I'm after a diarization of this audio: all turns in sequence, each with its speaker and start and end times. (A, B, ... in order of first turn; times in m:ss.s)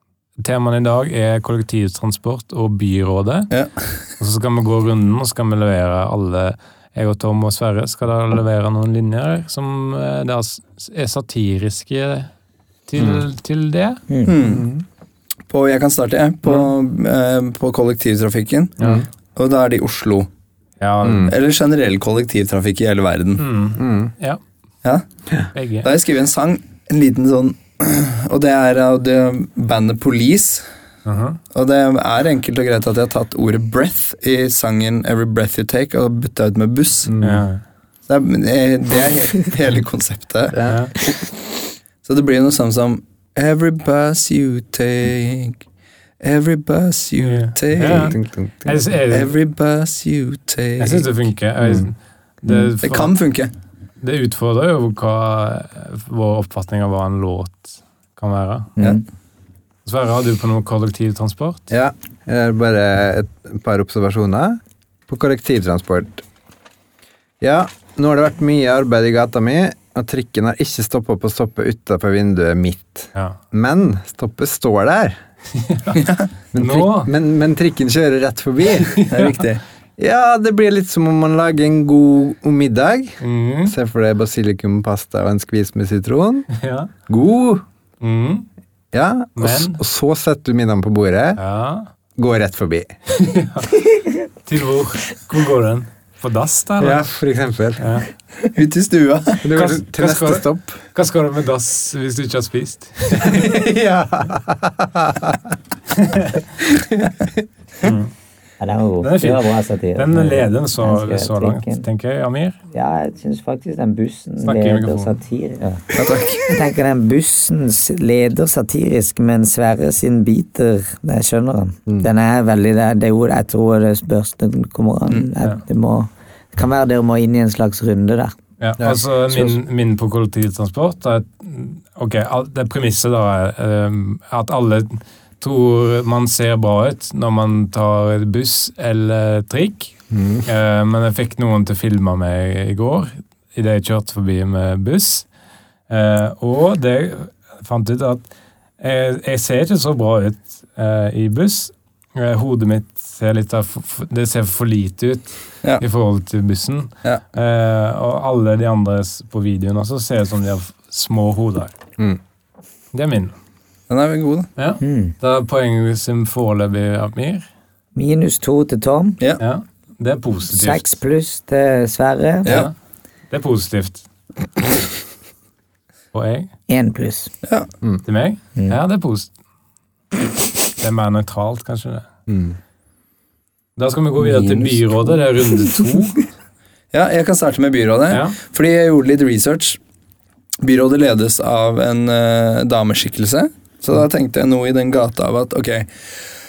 0:00.4-0:03.5 A
0:04.2-0:12.3 A
0:12.9-0:14.0 A
0:13.0-0:13.2 B
0:14.1-0:14.4 C
0:14.2-0:14.7 D
0:14.4-0:14.8 B
0:15.5-0:18.7 D
0:18.8-0:19.0 B
0:19.4-0:20.3 D
0:20.8-0:21.3 A
0:21.0-0:21.3 B
0:21.2-0:23.4 D
0:23.4-0:24.4 A
0:23.8-0:24.1 B
0:25.5-0:25.9 A
0:25.8-0:30.6 D
0:31.0-0:31.4 A
0:31.5-0:37.1 D
0:37.0-0:37.4 B
0:37.2-0:37.6 A
0:38.1-0:40.6 D
0:40.5-0:40.9 B
0:40.7-0:40.9 A
0:42.0-0:45.6 D
0:46.2-0:48.2 D
0:47.2-0:49.3 A
0:47.8-0:48.8 B
0:49.1-0:51.1 D
0:50.8-0:53.1 A
0:52.8-0:53.5 D
0:54.0-0:58.7 A
0:58.8-0:59.0 C
0:59.8-1:01.7 A
1:01.7-1:06.2 B
1:07.4-1:15.2 B
1:15.6-1:16.0 A
1:15.9-1:16.3 D
1:16.5-1:19.1 B
1:16.6-1:17.1 A
1:18.8-1:19.4 A
1:19.1-1:19.6 D
1:20.0-1:26.5 B
1:23.2-1:23.7 A
1:26.6-1:26.9 A
1:27.1-1:27.6 B
1:28.0-1:28.4 A
1:28.9-1:31.4 B
1:29.4-1:29.8 A
1:31.4-1:31.9 A
1:32.2-1:32.9 B
1:33.2-1:37.0 A
1:36.8-1:38.0 B
1:37.8-1:38.1 A
1:38.5-1:39.4 D
1:39.4-1:40.8 B
1:39.5-1:43.5 A
1:43.2-1:45.5 B
1:45.9-1:46.4 A
1:47.8-1:48.1 A
1:48.6-1:51.8 C
1:49.0-1:52.6 A
1:52.7-1:55.9 C
1:54.4-1:55.2 A
1:56.0-1:56.4 D
1:56.5-2:08.4 C
2:08.6-2:25.2 A
2:08.8-2:09.6 B
2:20.1-2:20.4 B
2:25.9-2:28.3 A
2:28.8-2:41.7 A
2:42.9-2:43.3 A
2:43.9-2:44.5 D
2:44.6-2:47.5 A
2:44.8-2:45.1 C
2:47.9-2:49.2 C
2:49.4-2:51.0 A
2:50.5-2:52.5 C
2:52.4-2:52.7 D
2:52.4-2:52.7 A
2:53.3-2:54.0 A
2:56.1-2:56.5 A
2:56.7-2:57.3 C
2:58.0-2:59.3 A
3:00.8-3:02.0 A
3:02.3-3:02.6 B
3:03.8-3:06.3 A
3:06.9-3:09.8 D
3:08.1-3:08.4 A
3:10.6-3:15.9 D